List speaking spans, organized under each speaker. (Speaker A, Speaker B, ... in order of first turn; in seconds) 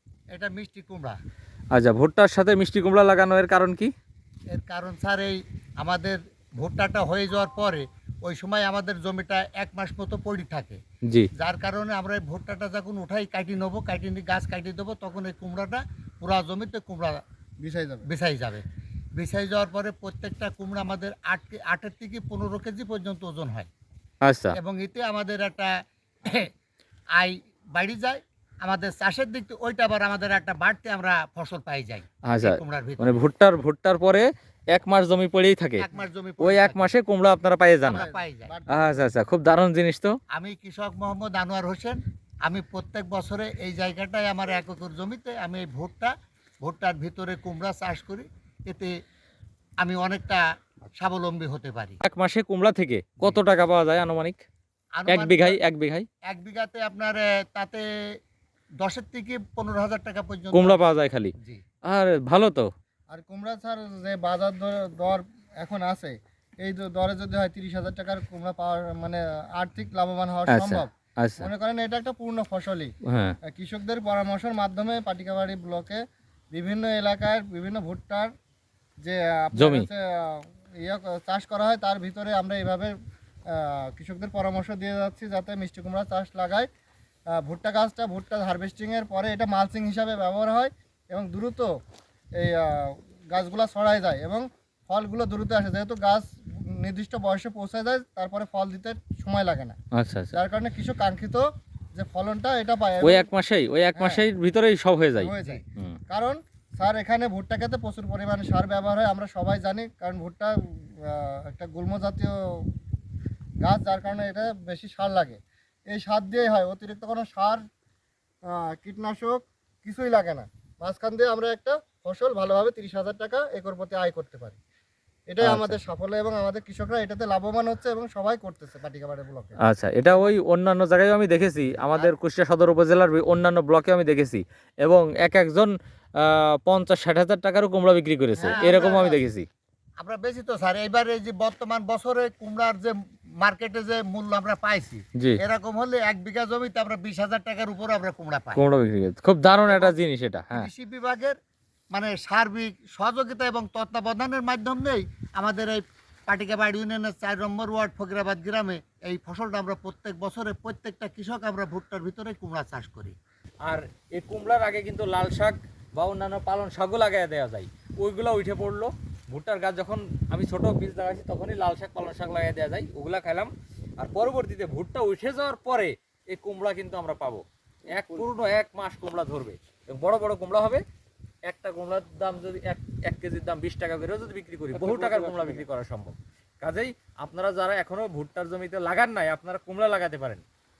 Speaker A: 0.3-1.2, 4.5-10.8, 11.4-17.2, 18.0-23.7, 24.5-25.7, 26.2-26.5, 27.1-33.2, 35.8-36.9, 37.9-38.5, 40.3-48.9, 49.8-52.0, 55.0-55.6, 56.2-57.8, 58.8-60.9, 138.4-139.2, 140.0-148.6, 149.7-150.0, 150.5-151.3, 151.9-163.2, 184.8-185.6
Speaker B: 1.7-3.9, 24.2-24.6, 32.2-35.8, 36.4-38.1, 38.7-40.2, 52.0-54.4, 55.1-56.0, 60.5-61.3, 61.8-62.7, 70.5-71.5, 73.1-73.3, 79.5-79.9, 99.9-100.3, 103.0-106.0, 125.4-125.8, 129.6-139.4, 148.5-150.7, 163.6-180.8, 181.4-190.4
Speaker C: 17.6-18.1, 37.9-39.0, 63.1-72.9, 73.5-76.0, 76.5-78.3, 79.0-82.9, 83.5-86.7, 87.4-91.7, 92.4-99.7, 100.3-103.3, 103.9-104.2, 105.2-112.7, 113.6-115.4, 115.9-117.6, 118.5-124.6, 125.3-129.6